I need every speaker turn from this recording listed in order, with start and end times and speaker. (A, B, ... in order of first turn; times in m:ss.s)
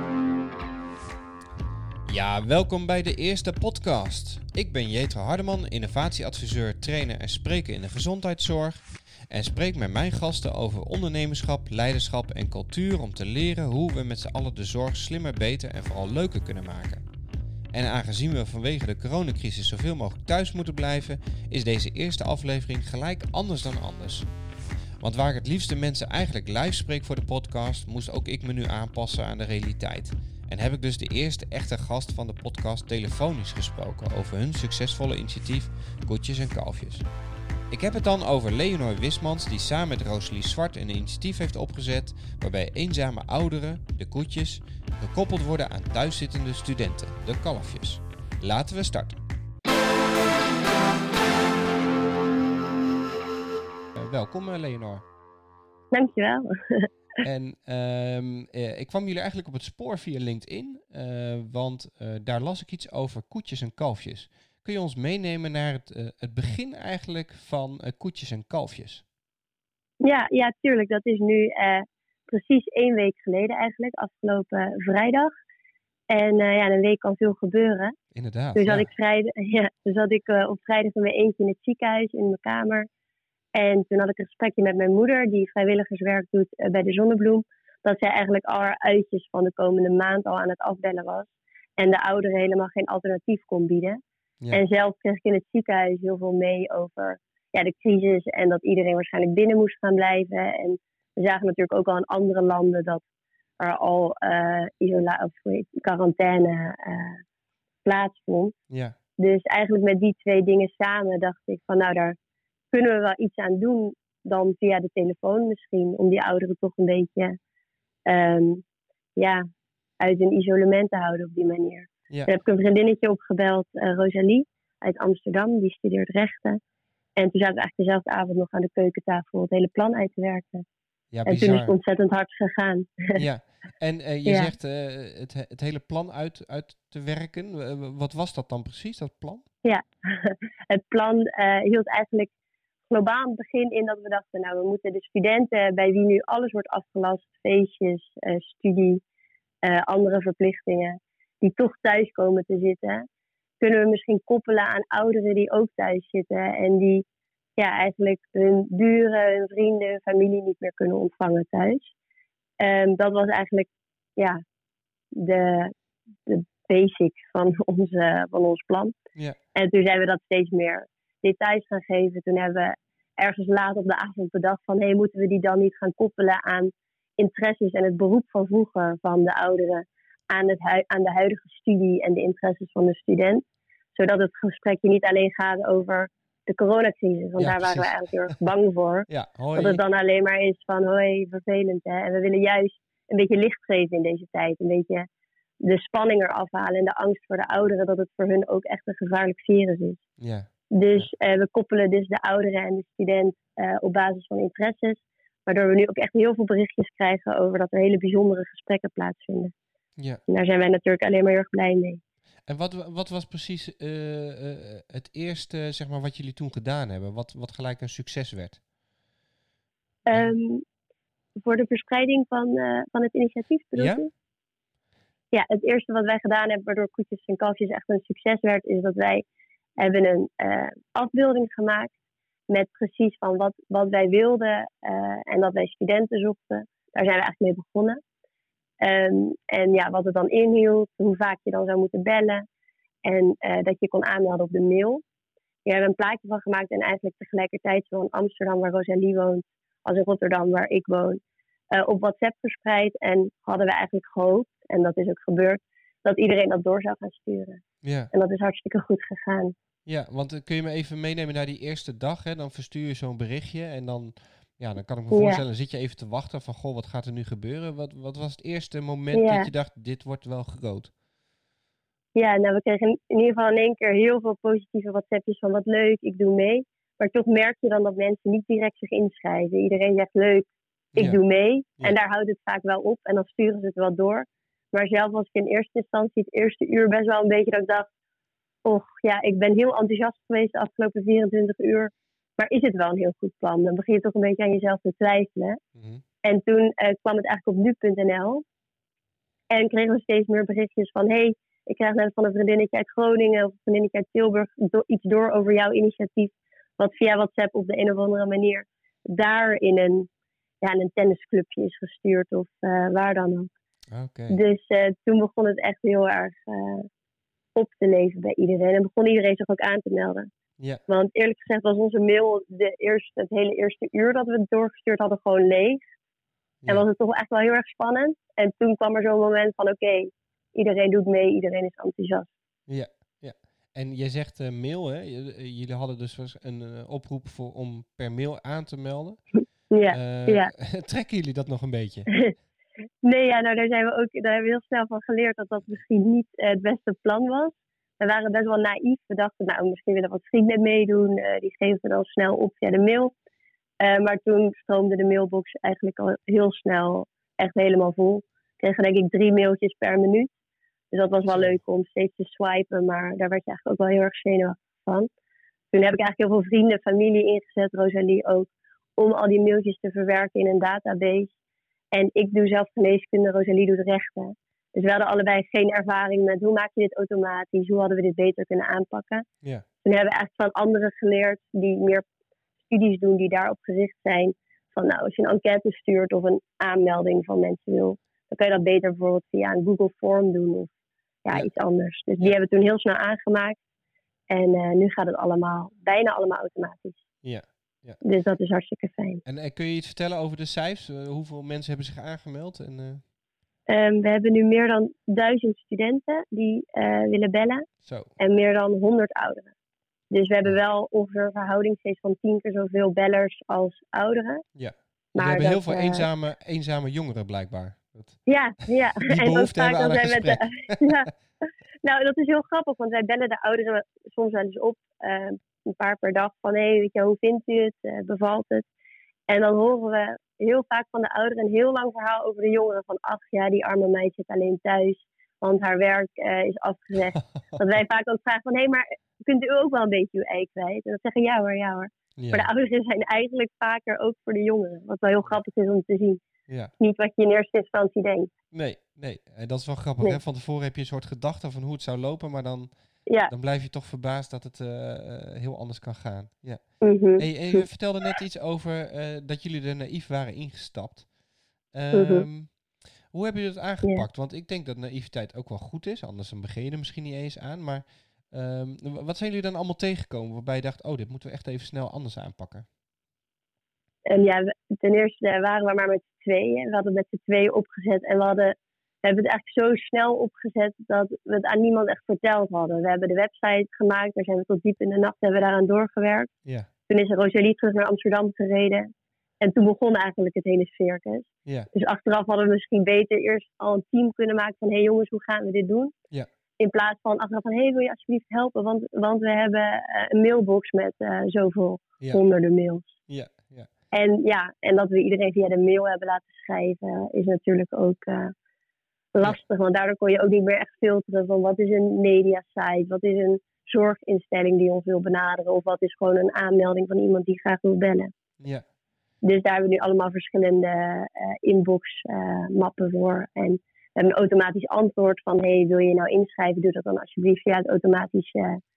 0:02.1-0:17.0 A
0:17.7-0:24.3 A
0:25.0-0:37.1 A
0:37.7-0:49.2 A
0:54.0-0:55.0 A
0:55.9-0:56.9 B
0:57.2-1:09.0 A
1:10.0-1:15.3 B
1:16.1-1:17.9 B
1:18.1-1:18.9 A
1:18.5-1:22.9 B
1:23.5-1:34.0 B
1:34.5-1:43.0 B
1:43.6-1:47.2 B
1:47.8-1:48.5 B
1:48.7-1:48.9 A
1:49.2-1:52.2 B
1:52.7-1:57.4 B
1:58.0-1:58.6 B
1:59.2-1:59.4 B
2:00.0-2:06.6 B
2:07.2-2:10.6 B
2:11.1-2:11.7 A
2:11.2-2:13.2 B
2:13.1-2:19.4 A
2:14.2-2:14.5 B
2:19.6-2:22.3 B
2:22.9-2:29.0 B
2:29.6-2:33.0 B
2:33.6-2:37.0 B
2:37.6-2:41.9 B
2:42.6-2:44.4 B
2:45.1-2:45.7 B
2:46.2-2:48.9 B
2:49.5-3:15.0 B
3:07.4-3:08.0 A
3:09.1-3:09.8 A
3:15.6-3:20.0 B
3:20.2-3:21.1 A
3:20.7-3:29.5 B
3:30.3-3:32.0 B
3:32.5-3:38.6 A
3:40.0-3:40.6 B
3:41.4-3:44.1 B
3:43.7-3:44.0 A
3:45.3-3:49.2 B
3:49.8-3:51.9 B
3:52.5-3:58.0 B
3:58.8-4:02.4 B
4:03.0-4:05.0 B
4:05.6-4:11.2 B
4:11.7-4:19.5 B
4:17.8-4:18.1 A
4:19.8-4:30.9 A
4:25.1-4:25.4 B
4:29.1-4:29.5 B
4:32.1-4:47.9 B
4:40.9-4:41.2 A
4:48.6-4:55.6 B
4:55.8-4:56.0 A
4:56.2-4:58.4 B
4:59.5-5:10.1 B
5:10.6-5:13.5 B
5:13.9-5:14.4 A
5:14.3-5:16.9 B
5:17.5-5:20.3 B
5:20.9-5:25.8 B
5:26.7-5:32.3 B
5:32.7-5:39.2 A
5:39.7-5:40.5 B
5:39.9-5:42.1 A
5:43.0-5:53.1 B
5:53.8-6:00.3 B
6:00.9-6:05.1 B
6:01.3-6:01.6 A
6:05.7-6:11.3 B
6:11.9-6:19.2 B
6:19.8-6:22.0 B
6:22.7-6:30.7 B
6:31.2-6:33.6 B
6:34.3-6:37.0 B
6:37.2-6:38.0 A
6:38.0-6:39.2 B
6:39.2-6:43.0 A
6:43.7-6:47.6 B
6:47.8-6:48.1 A
6:48.2-6:49.5 B
6:50.1-6:54.4 B
6:54.6-6:58.2 A
6:55.1-6:56.0 B
6:58.2-7:08.6 B
6:59.0-7:01.0 A
7:09.3-7:26.2 B
7:22.2-7:22.5 A
7:26.8-7:28.3 B
7:28.5-7:32.7 A
7:33.2-7:36.6 A
7:36.8-7:37.6 B
7:37.2-7:41.1 A
7:41.7-7:42.5 A
7:41.9-7:42.2 B
7:43.1-7:52.6 A
7:54.1-8:06.3 B
8:06.9-8:08.9 B
8:09.4-8:15.9 B
8:16.6-8:22.9 B
8:23.1-8:23.7 A
8:23.9-8:28.3 B
8:29.1-8:38.1 B
8:39.2-8:48.6 B